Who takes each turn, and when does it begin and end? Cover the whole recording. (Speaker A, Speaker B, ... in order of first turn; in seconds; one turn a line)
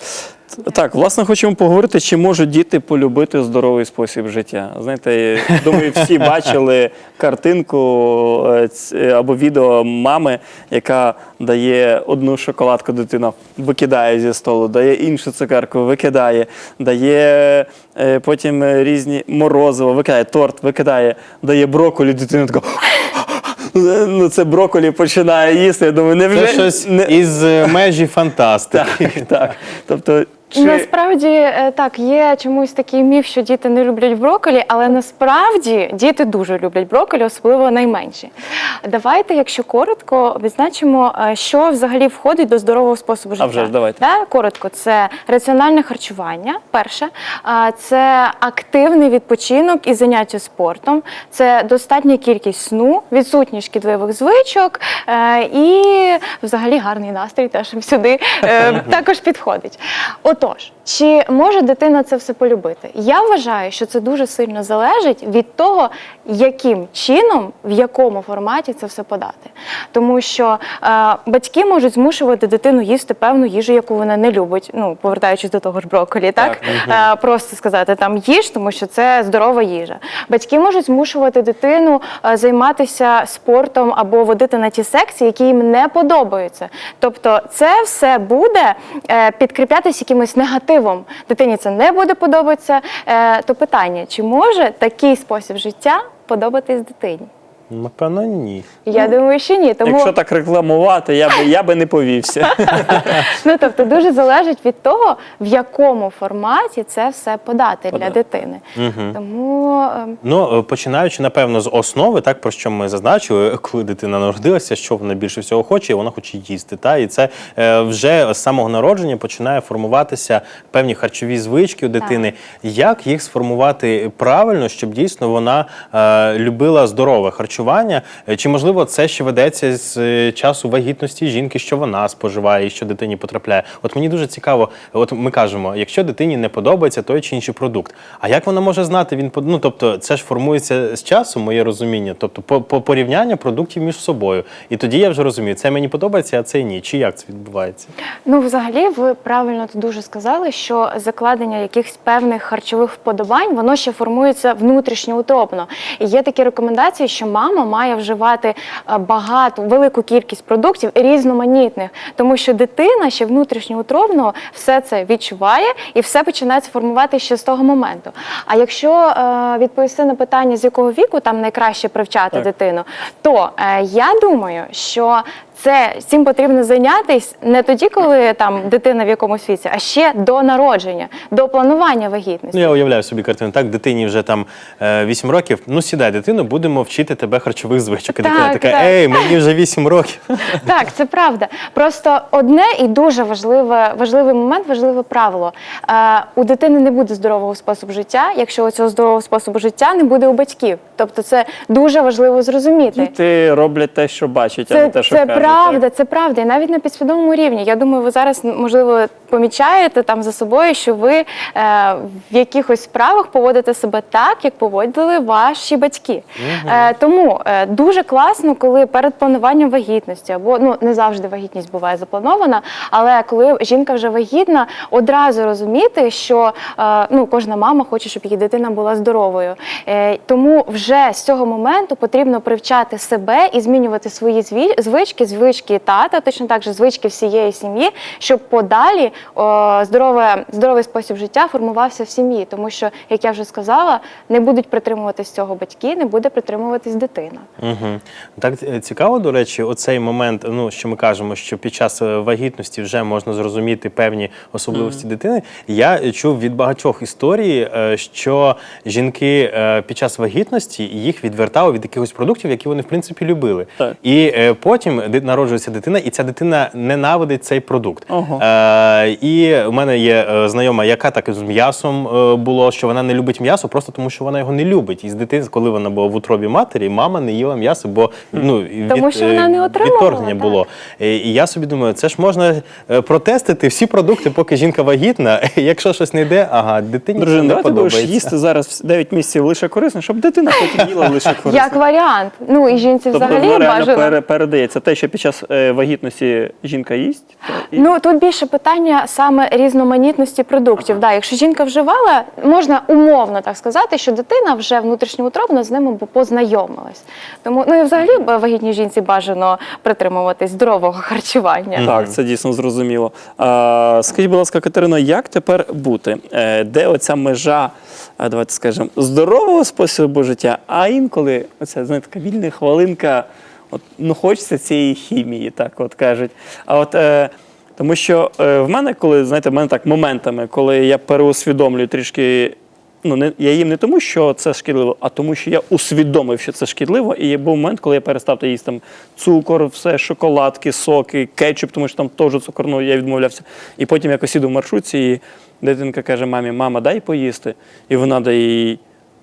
Speaker A: 0.6-27.8
Speaker B: 5.6-6.2
Speaker B: 26.3-29.3
Speaker A: 28.7-30.9
Speaker C: 30.5-38.3
Speaker C: 38.8-97.3
Speaker A: 43.4-44.0
Speaker A: 76.4-76.8
Speaker B: 76.6-77.1
Speaker B: 97.7-98.7
Speaker C: 98.8-100.1
Speaker A: 99.8-103.3
Speaker C: 102.9-110.2
Speaker A: 107.9-108.2
Speaker B: 108.8-109.2
Speaker B: 110.2-147.9
Speaker C: 122.0-122.3
Speaker C: 148.2-182.8
Speaker B: 182.5-190.6
Speaker C: 188.1-189.3
Speaker C: 190.5-203.1
Speaker A: 202.9-205.8
Speaker C: 204.7-247.4
Speaker B: 216.4-216.9
Speaker B: 247.6-288.3
Speaker A: 254.7-255.0
Speaker A: 268.1-268.4
Speaker C: 278.9-280.6
Speaker A: 287.1-291.8
Speaker C: 291.4-294.1
Speaker A: 293.1-297.9
Speaker C: 297.7-311.9
Speaker B: 311.7-312.2
Speaker A: 311.8-348.8